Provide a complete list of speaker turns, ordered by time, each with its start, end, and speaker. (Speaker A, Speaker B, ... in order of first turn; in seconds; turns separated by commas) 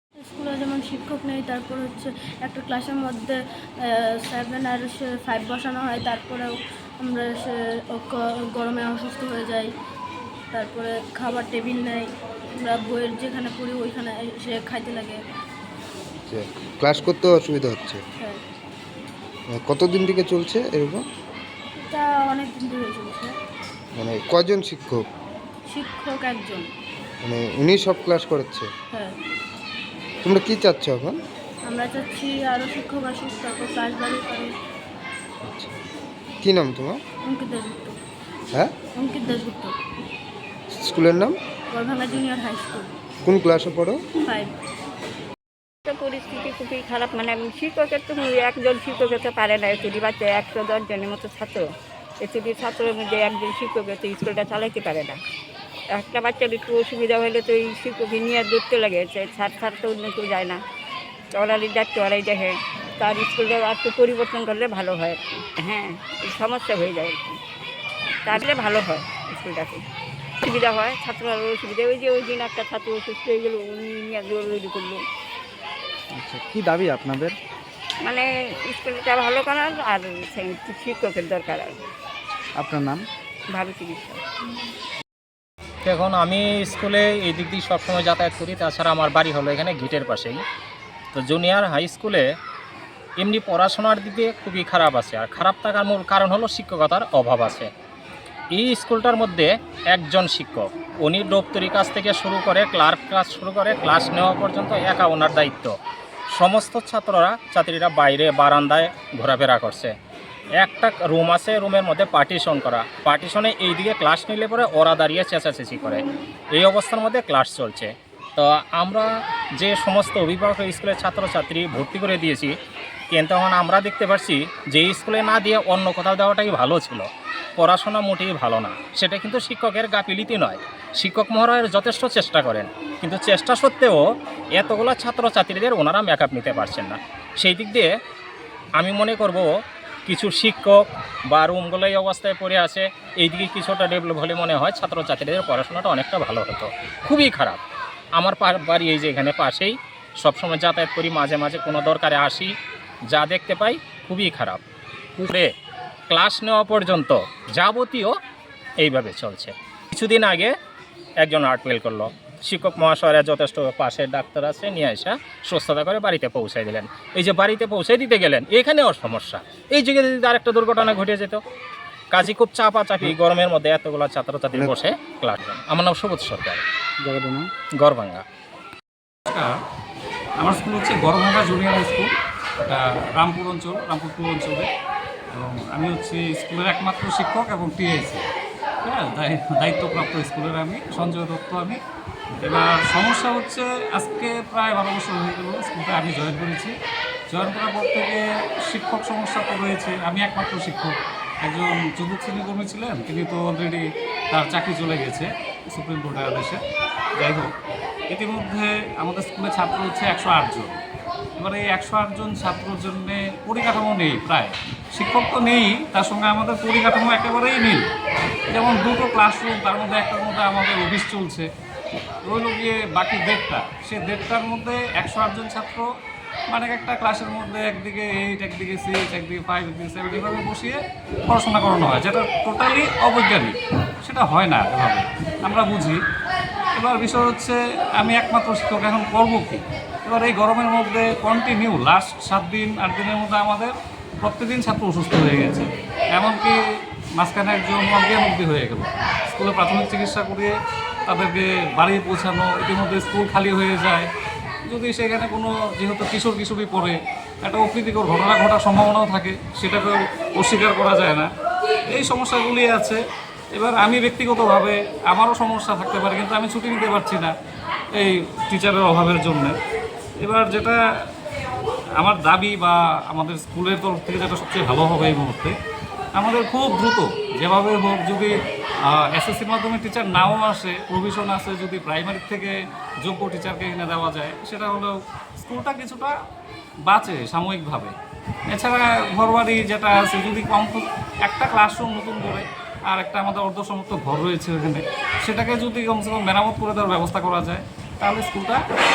Speaker A: 0.3-3.4, Speaker A: 4.2-9.7, Speaker A: 10.5-12.1, Speaker A: 12.6-15.2, Speaker B: 16.2-18.0, Speaker A: 18.0-18.4, Speaker B: 19.5-21.0, Speaker A: 21.8-23.3, Speaker B: 24.0-25.0, Speaker A: 25.7-26.7, Speaker B: 27.2-28.7, Speaker B: 30.2-31.2, Speaker A: 31.7-34.5, Speaker B: 35.4-35.8, Speaker B: 36.4-37.0, Speaker A: 37.3-38.0, Speaker A: 39.0-39.7, Speaker B: 40.7-41.4, Speaker A: 41.7-42.9, Speaker B: 43.2-44.0, Speaker A: 44.2-44.5, Speaker C: 45.9-51.7, Speaker C: 52.2-55.2, Speaker C: 55.9-60.6, Speaker C: 61.3-67.4, Speaker C: 68.2-69.8, Speaker C: 70.4-75.0, Speaker D: 76.2-77.3, Speaker C: 78.0-81.8, Speaker D: 82.6-83.0, Speaker C: 83.5-84.2, Speaker E: 85.8-90.4, Speaker E: 91.1-92.2, Speaker E: 93.2-97.7, Speaker E: 98.5-105.7, Speaker E: 106.3-109.9, Speaker E: 110.6-122.5, Speaker E: 123.1-134.0, Speaker E: 134.5-137.9, Speaker E: 138.8-139.5, Speaker E: 140.1-147.6, Speaker E: 148.2-152.5, Speaker E: 153.1-154.6, Speaker E: 155.2-155.5, Speaker E: 156.1-158.1, Speaker E: 158.8-160.5, Speaker E: 161.2-171.4, Speaker E: 172.1-176.6, Speaker D: 177.0-177.5, Speaker E: 177.8-178.2, Speaker F: 179.3-179.6, Speaker F: 180.4-184.7, Speaker F: 185.3-188.2, Speaker F: 188.8-191.8, Speaker F: 192.4-196.7, Speaker F: 197.3-206.6, Speaker F: 207.2-207.5, Speaker F: 208.1-210.8, Speaker F: 211.4-217.9, Speaker F: 218.5-221.5, Speaker F: 222.2-225.8, Speaker F: 226.5-236.0, Speaker F: 236.8-243.7, Speaker F: 244.2-246.6, Speaker F: 247.2-250.5, Speaker F: 251.1-254.1, Speaker F: 254.7-261.3, Speaker F: 261.9-263.0, Speaker F: 263.5-267.3, Speaker F: 267.9-269.6, Speaker F: 270.2-270.8, Speaker F: 272.0-275.6, Speaker F: 276.2-286.1, Speaker F: 286.9-287.9, Speaker F: 288.5-298.6